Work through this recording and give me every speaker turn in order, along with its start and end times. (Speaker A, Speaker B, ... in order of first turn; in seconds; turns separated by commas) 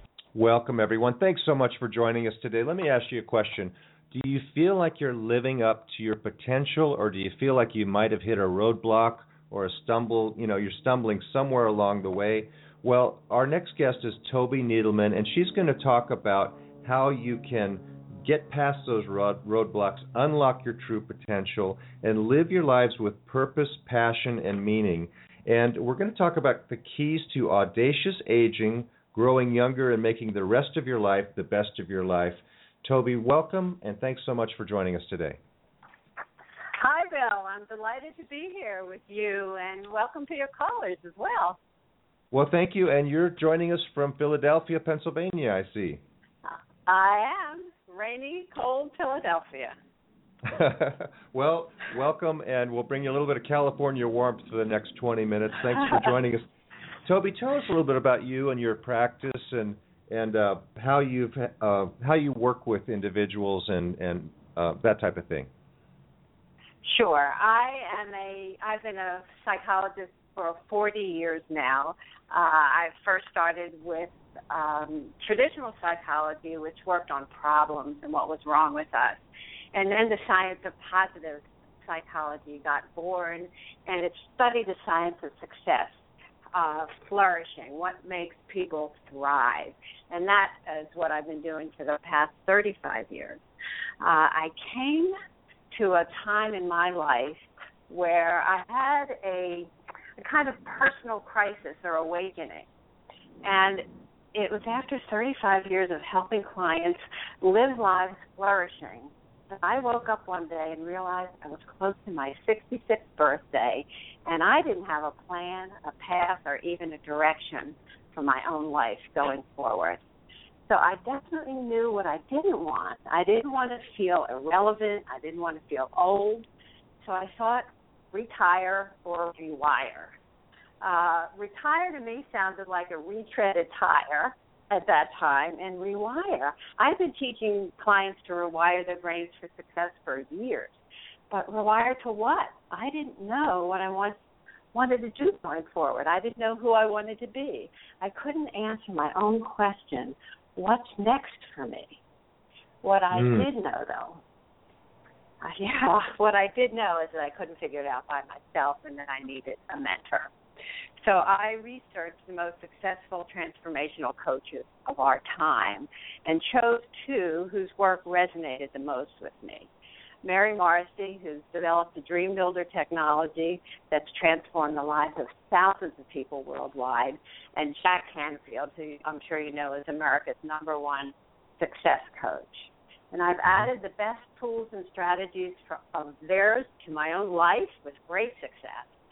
Speaker A: 0.3-35.4, Speaker B: 36.8-41.6, Speaker A: 42.3-46.0, Speaker B: 46.4-49.7, Speaker A: 50.5-56.5, Speaker A: 57.1-65.5, Speaker B: 66.8-79.2, Speaker B: 79.7-86.0, Speaker B: 86.5-93.4, Speaker B: 94.0-95.1, Speaker B: 95.7-102.7, Speaker B: 103.4-120.0, Speaker B: 120.7-126.5, Speaker B: 127.0-130.1, Speaker B: 130.8-140.8, Speaker B: 141.3-144.2, Speaker B: 144.7-152.0, Speaker B: 152.8-154.2, Speaker A: 153.1-153.5, Speaker B: 155.4-160.3, Speaker B: 161.0-169.7, Speaker B: 170.2-188.9